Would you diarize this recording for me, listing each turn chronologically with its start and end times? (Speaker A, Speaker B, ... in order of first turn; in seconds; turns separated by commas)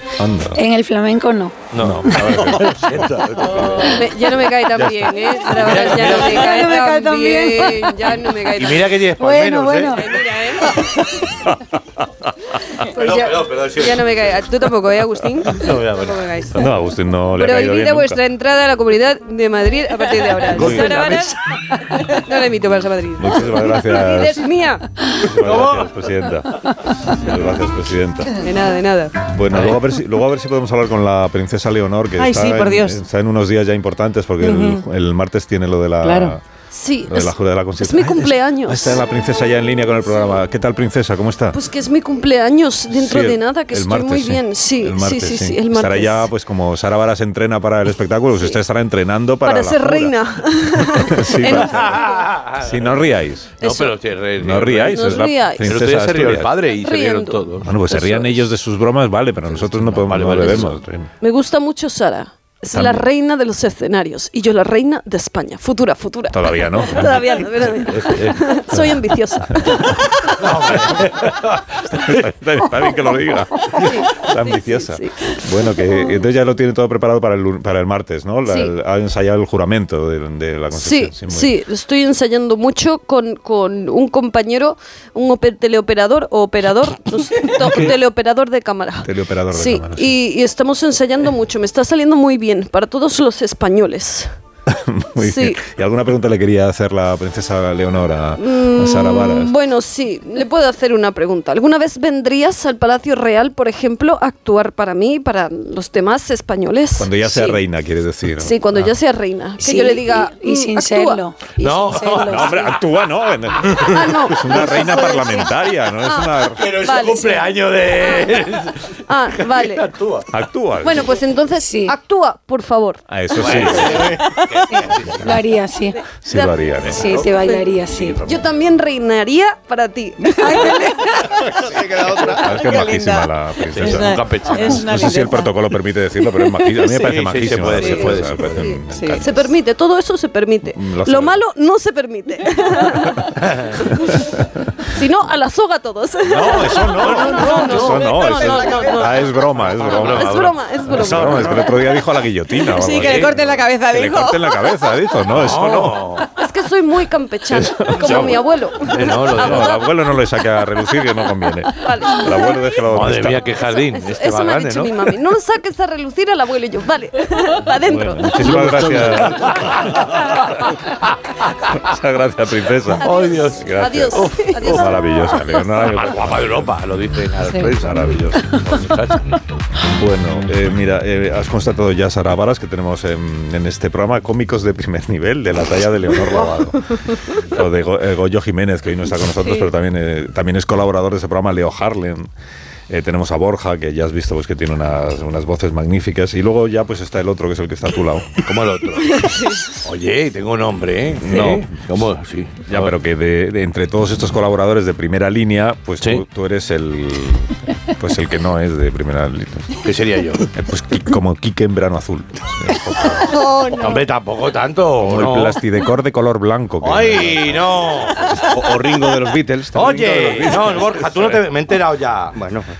Speaker A: 0.2-0.6, Speaker B: 0.6-1.6, Speaker C: 1.7-4.0, Speaker A: 1.8-3.8, Speaker D: 3.8-9.0, Speaker A: 4.7-5.2, Speaker C: 5.5-6.5, Speaker E: 6.4-7.8, Speaker C: 8.5-10.2, Speaker B: 9.2-10.0, Speaker D: 9.8-10.9, Speaker C: 12.9-14.2, Speaker D: 12.9-16.6, Speaker C: 15.6-16.3, Speaker A: 16.5-18.2, Speaker D: 17.3-25.0, Speaker C: 20.5-21.4, Speaker A: 20.6-20.9, Speaker A: 23.2-24.5, Speaker A: 25.2-28.4, Speaker C: 25.4-25.9, Speaker D: 28.4-29.3, Speaker A: 29.3-36.4, Speaker E: 32.2-33.0, Speaker E: 34.4-34.8, Speaker E: 36.0-36.4, Speaker D: 36.7-39.0, Speaker A: 37.1-41.6, Speaker D: 41.5-46.3, Speaker A: 42.9-50.1, Speaker D: 49.4-52.3, Speaker A: 50.8-53.6, Speaker C: 51.5-53.0, Speaker D: 53.6-54.0, Speaker C: 53.6-57.7, Speaker A: 54.4-56.5, Speaker D: 54.8-55.9, Speaker D: 56.6-58.5, Speaker A: 57.6-61.1, Speaker C: 59.5-60.8, Speaker D: 60.1-70.7, Speaker A: 62.7-63.0, Speaker A: 66.3-67.5, Speaker C: 67.9-68.4, Speaker C: 70.4-71.7, Speaker A: 71.9-81.5, Speaker D: 73.6-76.1, Speaker D: 78.5-78.7, Speaker D: 80.7-94.3, Speaker A: 87.6-87.9, Speaker A: 89.0-90.1, Speaker A: 94.7-99.5, Speaker D: 95.2-95.6, Speaker D: 98.4-107.6, Speaker A: 107.0-108.9, Speaker D: 108.4-111.2, Speaker B: 109.6-112.8, Speaker C: 111.6-112.8, Speaker A: 112.2-116.6, Speaker D: 113.7-118.5, Speaker C: 116.6-118.8, Speaker D: 119.0-119.9, Speaker C: 119.4-120.3, Speaker A: 120.3-121.1, Speaker D: 120.8-123.8, Speaker B: 121.6-121.9, Speaker A: 123.1-124.3, Speaker C: 123.4-125.4, Speaker B: 125.1-126.0, Speaker A: 126.2-127.0, Speaker D: 126.2-131.0, Speaker B: 126.9-128.2, Speaker C: 127.9-128.4, Speaker B: 130.4-131.3, Speaker A: 132.2-139.5, Speaker E: 132.5-135.6, Speaker C: 133.7-134.8, Speaker E: 136.3-138.1, Speaker C: 136.9-138.8, Speaker D: 138.6-144.3, Speaker E: 138.9-139.2, Speaker A: 140.7-141.4, Speaker C: 143.4-143.7, Speaker A: 144.1-144.4, Speaker D: 144.9-151.9, Speaker A: 146.2-156.1, Speaker C: 147.0-148.0, Speaker C: 149.8-151.6, Speaker E: 152.7-154.8, Speaker C: 155.3-156.3, Speaker D: 156.2-159.9, Speaker A: 157.5-158.4, Speaker C: 158.9-159.7, Speaker A: 159.3-163.5, Speaker D: 161.7-162.9, Speaker C: 162.9-165.0, Speaker D: 163.5-168.9, Speaker A: 167.9-170.2, Speaker C: 168.4-170.6, Speaker A: 171.7-176.7, Speaker C: 173.0-174.9, Speaker D: 173.0-175.8, Speaker C: 175.8-179.4, Speaker E: 177.4-177.7, Speaker A: 177.7-179.0, Speaker A: 179.9-192.3, Speaker A: 192.9-198.5, Speaker C: 198.4-199.3, Speaker D: 199.2-199.7, Speaker C: 199.8-202.9, Speaker A: 201.2-201.8, Speaker A: 202.7-209.8, Speaker C: 209.8-210.5, Speaker A: 210.5-213.4, Speaker E: 213.3-214.0, Speaker C: 213.8-215.6, Speaker A: 215.0-221.2, Speaker C: 216.8-218.3, Speaker C: 219.7-222.3